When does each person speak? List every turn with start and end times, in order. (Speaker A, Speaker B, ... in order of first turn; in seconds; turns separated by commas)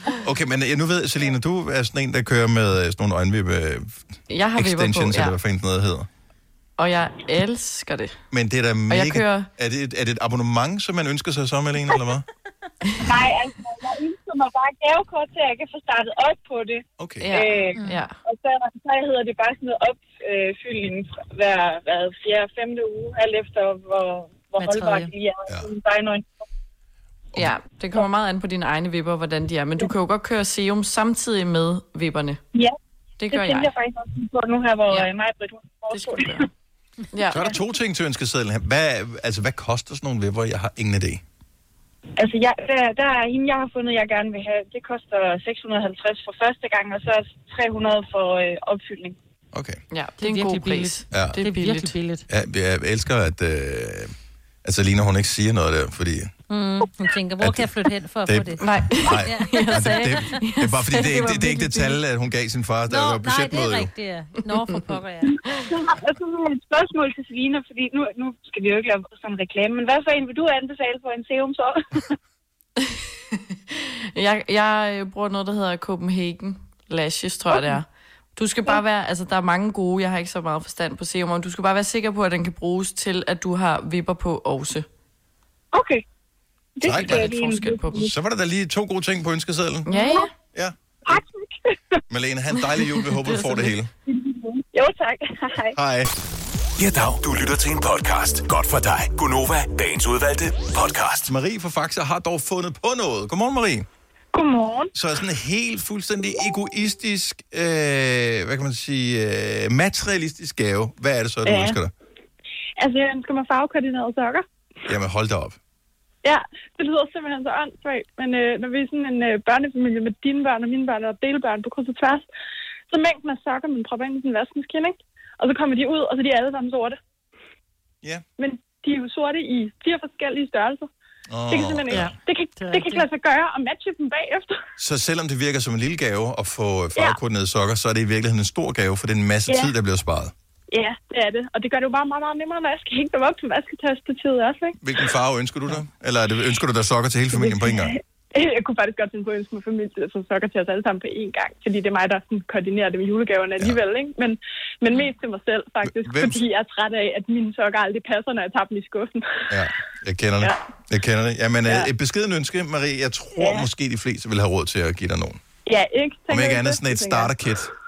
Speaker A: 0.2-4.0, Speaker B: 4.3-5.4, Speaker A: 4.5-6.1, Speaker B: 6.8-8.2, Speaker A: 8.3-12.2, Speaker B: 8.9-9.5, Speaker B: 12.8-13.2, Speaker C: 13.0-26.3, Speaker A: 17.0-17.3, Speaker B: 17.2-18.1, Speaker D: 24.6-25.1, Speaker B: 27.4-32.4, Speaker B: 33.2-33.7, Speaker C: 33.3-36.5, Speaker B: 35.9-36.5, Speaker B: 37.1-37.5, Speaker A: 37.3-41.2, Speaker C: 42.1-49.2, Speaker A: 49.5-49.8, Speaker B: 49.9-51.9, Speaker D: 50.2-52.2, Speaker A: 51.1-51.4, Speaker A: 52.3-56.3, Speaker E: 56.5-60.4, Speaker A: 57.4-57.7, Speaker A: 58.3-63.9, Speaker B: 58.6-62.0, Speaker E: 62.9-65.6, Speaker C: 65.3-72.1, Speaker B: 72.8-84.9, Speaker C: 85.7-86.0, Speaker C: 86.8-88.1, Speaker A: 86.8-87.3, Speaker B: 86.9-88.1, Speaker A: 88.0-90.0, Speaker B: 89.8-90.3, Speaker C: 91.0-91.8, Speaker A: 92.1-93.9, Speaker B: 93.2-93.7, Speaker C: 94.1-95.8, Speaker A: 95.7-96.1, Speaker F: 96.8-101.3, Speaker A: 101.3-103.8, Speaker C: 104.3-104.9, Speaker A: 104.9-111.9, Speaker C: 111.5-111.8, Speaker C: 112.8-114.4, Speaker A: 114.9-115.6, Speaker C: 116.2-122.2, Speaker C: 122.9-127.0, Speaker C: 128.4-130.9, Speaker A: 131.3-132.1, Speaker C: 131.5-134.6, Speaker D: 131.9-133.1, Speaker A: 134.8-140.3, Speaker C: 140.7-144.8, Speaker A: 144.8-147.9, Speaker C: 147.3-159.4, Speaker A: 155.8-156.4, Speaker A: 159.5-165.4, Speaker C: 161.6-161.9, Speaker C: 163.4-163.7, Speaker C: 165.7-167.3, Speaker A: 166.3-167.7